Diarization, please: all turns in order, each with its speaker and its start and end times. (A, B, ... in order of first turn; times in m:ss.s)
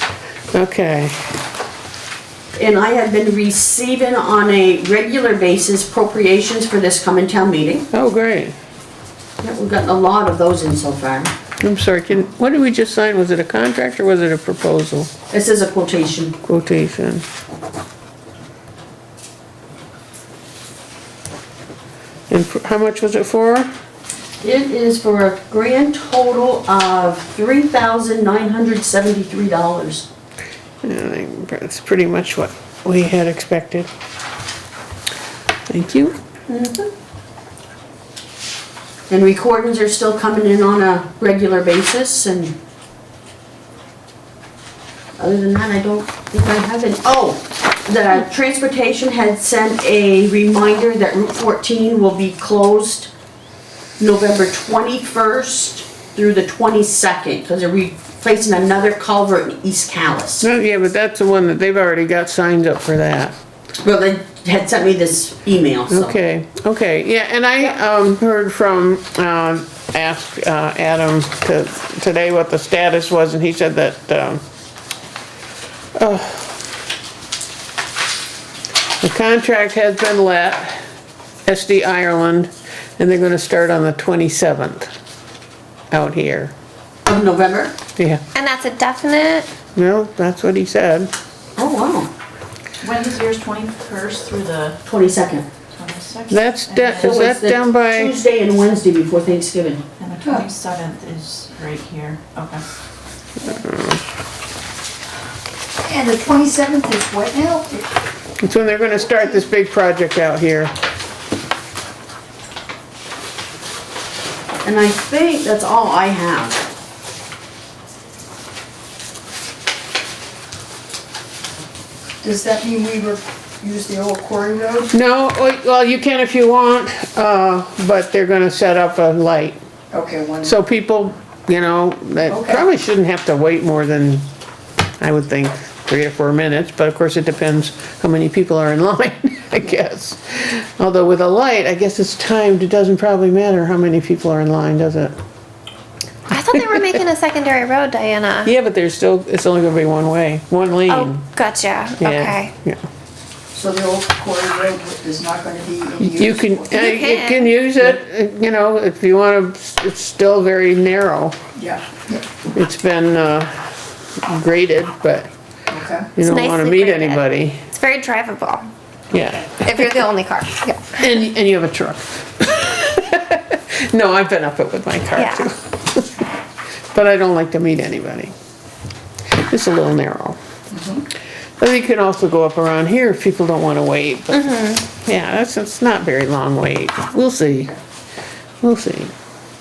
0:00.5-0:01.2 A
0:02.5-0:07.9 B
0:07.9-0:08.5 A
0:09.4-0:11.3 B
0:11.6-0:15.1 A
0:15.3-0:16.4 B
0:16.4-0:17.2 A
0:22.3-0:23.7 A
0:24.4-0:30.1 B
0:30.8-0:33.9 A
0:35.7-0:36.1 A
0:36.5-0:36.9 B
0:39.1-0:42.6 B
0:45.2-0:53.1 B
0:54.0-1:00.5 B
1:00.4-1:03.3 A
1:03.8-1:06.1 B
1:05.9-1:14.4 A
1:16.0-1:16.6 A
1:19.0-1:20.8 A
1:21.5-1:24.9 A
1:25.9-1:26.5 A
1:27.0-1:27.7 B
1:28.3-1:29.5 C
1:29.8-1:31.1 A
1:31.6-1:32.1 B
1:32.8-1:34.8 D
1:34.8-1:35.5 B
1:35.7-1:37.2 D
1:36.3-1:38.1 A
1:37.0-1:39.8 B
1:40.0-1:42.6 D
1:43.4-1:44.0 A
1:45.8-1:47.8 E
1:48.4-1:50.7 A
1:54.6-1:56.6 B
2:02.2-2:04.9 E
2:04.9-2:09.6 A
2:09.9-2:10.5 E
2:10.4-2:14.2 A
2:12.3-2:12.6 E
2:15.0-2:25.1 A
2:26.3-2:28.5 C
2:26.5-2:26.9 A
2:28.4-2:31.2 A
2:30.9-2:32.5 C
2:32.0-2:32.8 A
2:33.5-2:36.7 E
2:36.0-2:41.4 A
2:36.7-2:37.5 C
2:41.6-2:42.2 E
2:42.5-2:43.5 A
2:44.2-2:45.3 A
2:45.7-2:46.1 E
2:46.2-2:47.6 A
2:46.2-2:48.7 C
2:49.1-2:50.0 A
2:49.5-2:51.0 C
2:51.0-2:56.2 A
2:55.2-2:55.4 C
2:56.9-2:58.3 A
2:59.4-3:00.4 A
3:00.7-3:01.0 E
3:01.6-3:07.7 A
3:04.4-3:04.8 C
3:08.6-3:09.1 A